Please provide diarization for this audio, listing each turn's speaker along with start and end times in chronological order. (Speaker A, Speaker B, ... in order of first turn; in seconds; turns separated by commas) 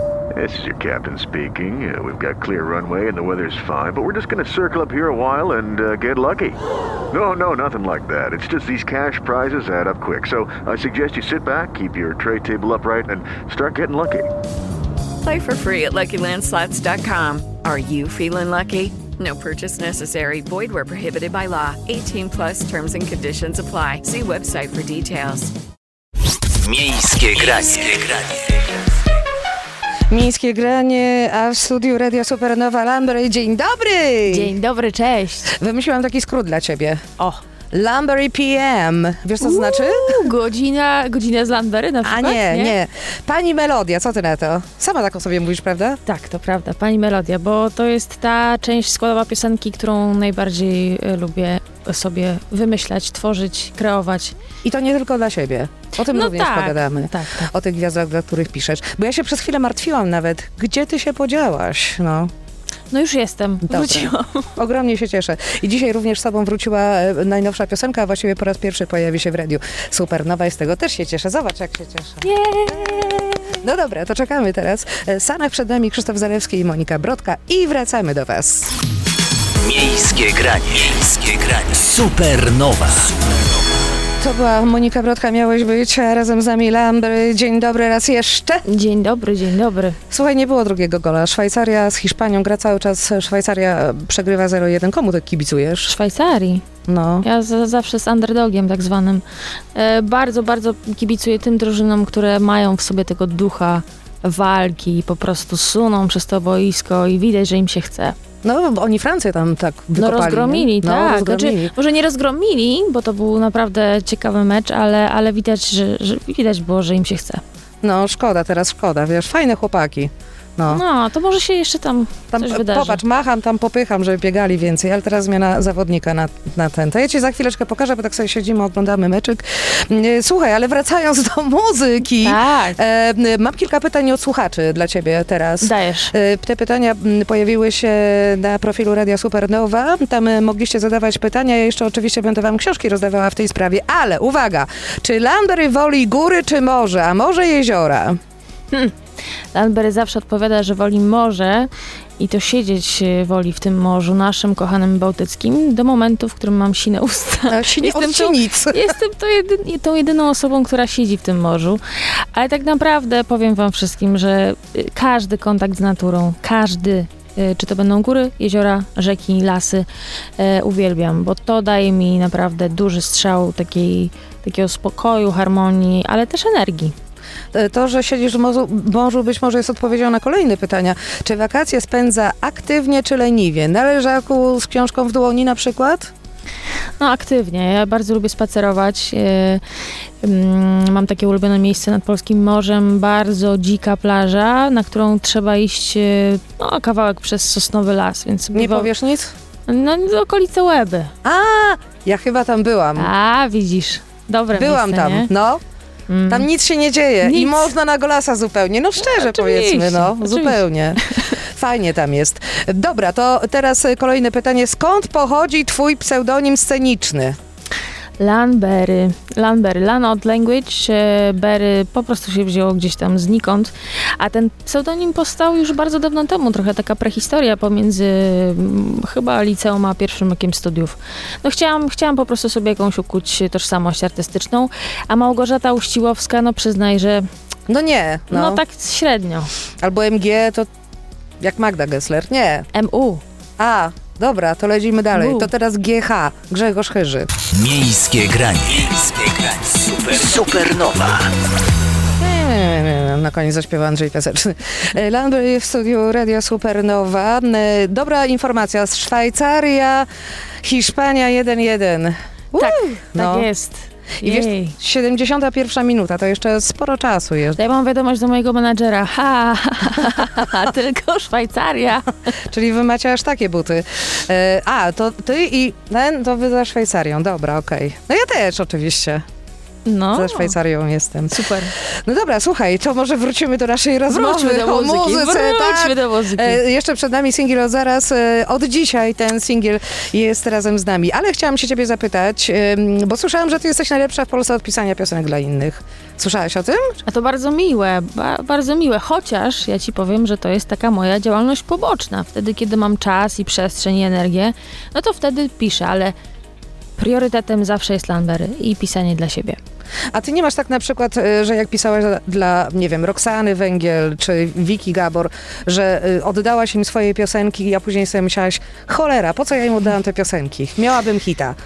Speaker A: 0.4-6.4, Speaker A: 13.4-13.7, Speaker B: 15.2-25.5, Speaker C: 26.5-28.6, Speaker D: 30.1-34.5, Speaker E: 34.3-35.5, Speaker D: 35.5-37.0, Speaker D: 37.7-40.3, Speaker E: 39.4-42.7, Speaker D: 42.0-46.0, Speaker E: 46.0-54.4, Speaker D: 54.6-62.3, Speaker E: 56.1-57.5, Speaker E: 62.9-64.5, Speaker D: 63.6-72.7, Speaker E: 72.2-73.5, Speaker D: 73.6-78.7, Speaker C: 79.6-83.1, Speaker D: 84.2-88.6, Speaker E: 88.7-90.0, Speaker D: 90.1-95.9, Speaker E: 95.8-96.6, Speaker D: 96.9-97.2, Speaker E: 97.2-108.2, Speaker D: 108.4-111.7, Speaker E: 110.0-117.4, Speaker D: 117.8-120.8, Speaker E: 120.7-123.0, Speaker D: 122.3-148.2, Speaker E: 132.2-132.8, Speaker E: 135.6-136.1, Speaker E: 149.5-169.9, Speaker D: 157.5-158.9, Speaker E: 170.4-176.9, Speaker D: 177.5-186.1, Speaker E: 187.0-189.6, Speaker E: 190.2-198.9, Speaker D: 198.5-199.3, Speaker E: 199.7-201.1, Speaker D: 201.2-203.1, Speaker E: 203.0-205.3, Speaker D: 204.5-205.6, Speaker E: 206.1-206.5, Speaker D: 206.3-217.4, Speaker E: 207.2-207.7, Speaker E: 209.0-211.3, Speaker E: 218.2-237.2, Speaker D: 237.7-238.6, Speaker E: 238.3-239.5, Speaker D: 239.8-240.7, Speaker D: 241.4-242.7, Speaker E: 242.7-243.2, Speaker D: 243.6-247.3, Speaker E: 245.1-245.5, Speaker C: 247.5-251.3, Speaker D: 252.2-260.1, Speaker D: 260.6-263.5, Speaker E: 262.6-264.7, Speaker D: 264.2-267.6, Speaker E: 267.6-272.3, Speaker D: 272.4-279.2, Speaker E: 279.8-280.6, Speaker D: 280.1-296.9, Speaker E: 281.3-281.7, Speaker E: 284.1-286.6, Speaker E: 297.0-306.1, Speaker E: 307.0-309.6, Speaker D: 310.1-321.6